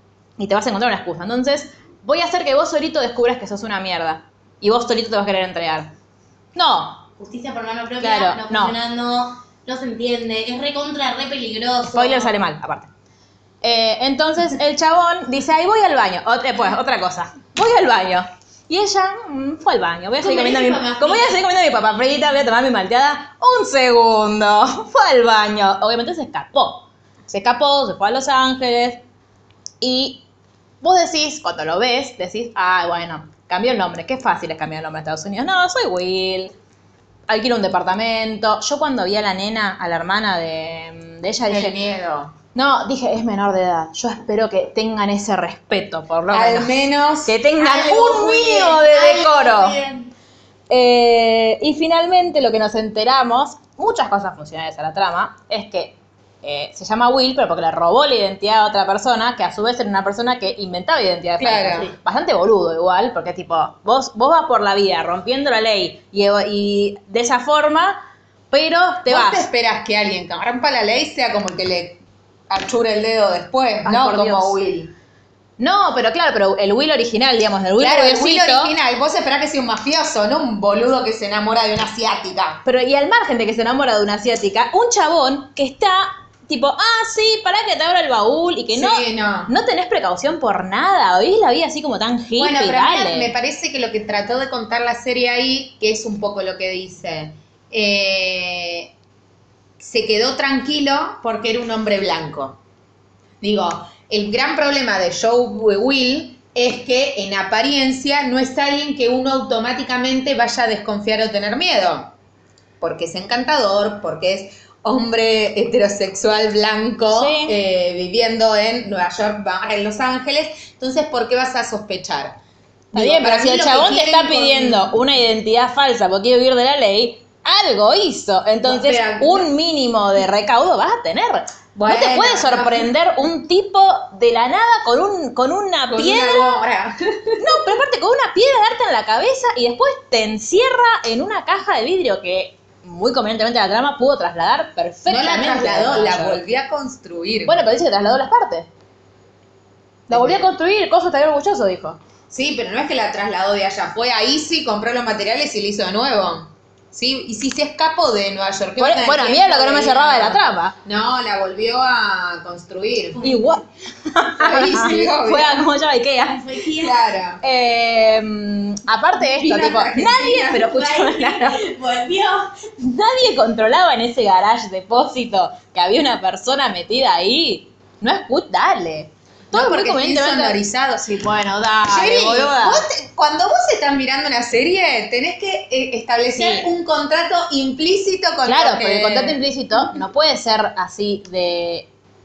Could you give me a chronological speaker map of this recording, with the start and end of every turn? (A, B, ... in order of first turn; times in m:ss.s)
0:00.4-0:05.9 A
0:06.5-0:07.0 A
0:07.2-0:12.3 B
0:08.0-0:08.8 A
0:11.9-0:12.9 A
0:13.6-0:29.0 A
0:20.2-0:21.4 B
0:29.8-0:30.2 A
0:30.8-0:36.5 A
0:37.3-0:41.8 A
0:41.5-0:42.3 C
0:42.5-0:49.8 A
0:46.3-0:47.4 C
0:47.6-0:50.1 B
0:50.7-1:09.5 A
1:01.4-1:01.9 C
1:09.0-1:14.9 C
1:13.8-1:14.6 A
1:15.6-1:18.7 A
1:17.8-1:22.6 C
1:22.6-1:33.3 A
1:28.7-1:29.5 C
1:32.4-1:38.9 C
1:39.8-1:42.6 C
1:43.4-1:52.1 C
1:52.8-2:02.4 C
1:57.1-1:57.5 A
2:02.9-2:05.0 C
2:02.9-2:16.6 A
2:08.6-2:09.5 C
2:11.7-2:12.9 C
2:15.9-2:17.5 C
2:17.4-2:26.4 A
2:25.0-2:27.6 C
2:27.4-2:28.7 A
2:30.1-2:32.0 A
2:30.1-2:30.4 C
2:32.3-2:43.2 C
2:38.8-2:40.7 A
2:43.1-2:43.6 B
2:43.2-2:46.5 A
2:44.4-2:45.6 C
2:44.7-2:45.0 B
2:46.3-2:47.1 B
2:46.8-2:47.4 C
2:47.4-2:51.7 A
2:49.2-2:50.6 C
2:50.0-2:52.6 B
2:52.8-3:02.8 A
2:59.5-3:01.1 C
3:01.9-3:09.4 C
3:06.4-3:06.6 A
3:08.4-3:11.9 A